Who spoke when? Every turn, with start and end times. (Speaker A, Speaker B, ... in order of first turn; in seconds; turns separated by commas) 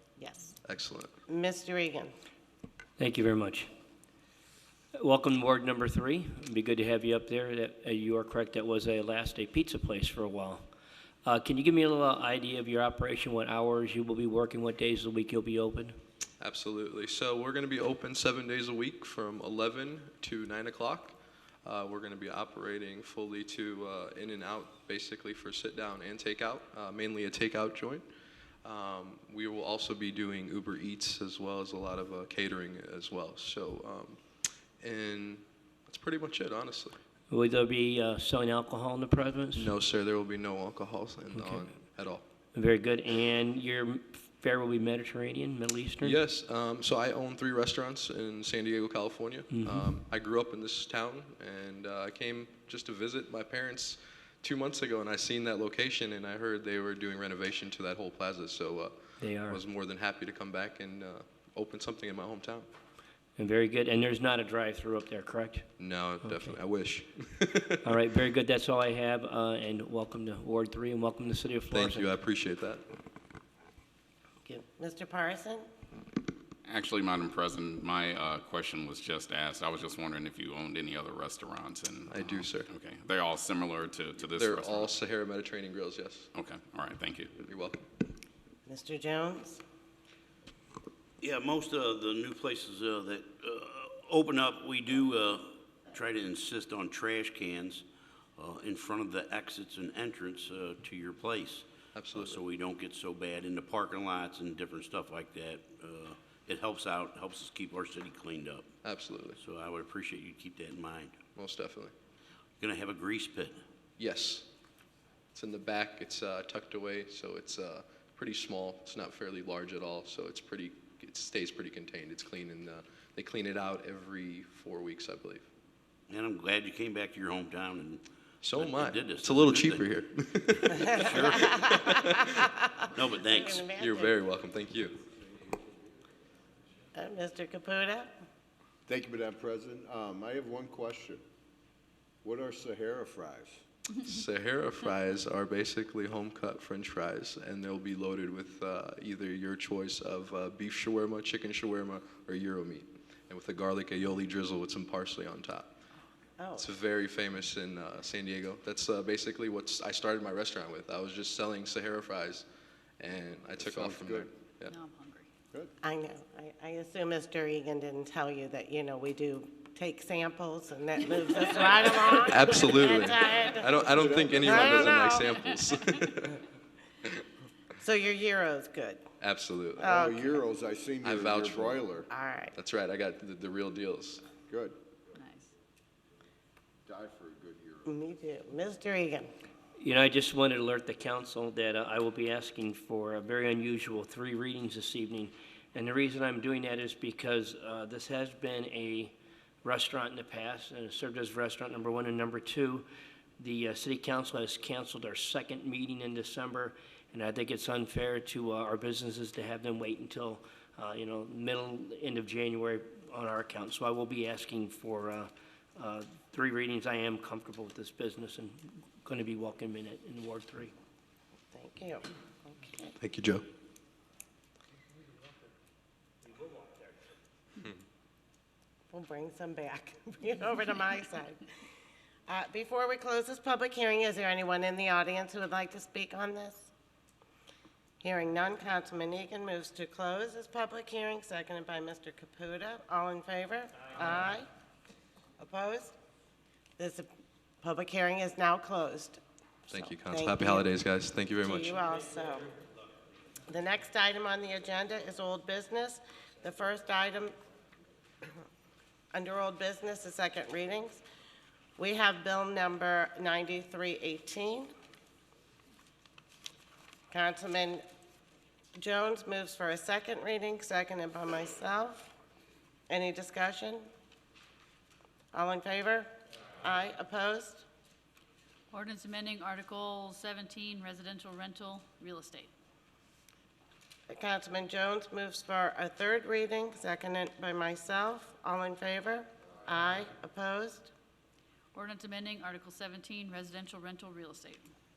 Speaker A: 0.2-0.5, Speaker B: 0.6-1.1, Speaker A: 1.3-2.1, Speaker C: 3.0-3.7, Speaker C: 5.0-10.6, Speaker C: 11.2-15.9, Speaker B: 16.4-28.0, Speaker B: 28.6-34.2, Speaker B: 34.8-37.0, Speaker C: 37.3-39.7, Speaker B: 39.5-42.2, Speaker C: 41.3-41.7, Speaker C: 42.5-46.2, Speaker B: 46.0-62.7, Speaker C: 49.5-50.0, Speaker C: 59.2-59.6, Speaker C: 63.4-65.7, Speaker B: 65.8-67.8, Speaker C: 66.2-66.5, Speaker C: 67.8-72.2, Speaker B: 71.7-72.8, Speaker A: 74.4-75.7, Speaker D: 76.7-84.9, Speaker B: 82.1-82.7, Speaker B: 84.3-86.3, Speaker D: 86.3-87.3, Speaker B: 87.4-87.8, Speaker A: 88.7-89.6, Speaker E: 91.2-97.8, Speaker E: 98.4-108.7, Speaker B: 101.9-102.4, Speaker B: 108.8-109.4, Speaker E: 109.4-111.1, Speaker B: 111.3-111.9, Speaker E: 112.6-113.6, Speaker B: 114.0-114.5, Speaker B: 115.3-125.5, Speaker E: 126.1-128.0, Speaker B: 128.4-132.3, Speaker E: 128.5-129.9, Speaker A: 130.9-132.5, Speaker E: 130.9-131.7, Speaker E: 132.9-133.7, Speaker A: 133.2-134.1, Speaker B: 133.8-135.0, Speaker A: 136.9-138.1, Speaker F: 138.9-141.2, Speaker F: 142.2-143.6, Speaker B: 144.0-155.7, Speaker A: 156.4-156.7, Speaker B: 156.6-162.5, Speaker B: 163.0-164.7, Speaker F: 163.6-164.3, Speaker G: 164.7-165.3, Speaker A: 165.8-173.8, Speaker B: 172.3-176.4, Speaker F: 173.9-174.4, Speaker A: 174.4-175.3, Speaker A: 177.8-179.0, Speaker B: 179.2-179.9, Speaker A: 179.8-180.4, Speaker F: 179.9-182.1, Speaker B: 181.0-181.8, Speaker A: 182.1-182.5, Speaker B: 182.5-184.2, Speaker F: 184.5-184.8, Speaker G: 185.1-185.5, Speaker F: 186.8-187.9, Speaker A: 187.8-189.3, Speaker C: 189.8-202.9, Speaker C: 203.4-220.7, Speaker A: 221.5-222.9, Speaker B: 223.0-223.4, Speaker A: 228.9-231.4, Speaker A: 232.3-236.7, Speaker A: 238.0-244.5, Speaker A: 245.4-245.9, Speaker A: 246.8-247.1, Speaker A: 247.6-250.7, Speaker B: 249.7-251.8, Speaker A: 251.4-252.5, Speaker A: 253.5-257.3, Speaker A: 259.1-261.0, Speaker A: 261.8-264.7, Speaker A: 267.1-267.8, Speaker A: 268.8-272.1, Speaker A: 272.9-273.9, Speaker A: 275.3-277.6, Speaker G: 278.7-282.5, Speaker A: 284.1-290.9, Speaker G: 291.7-294.7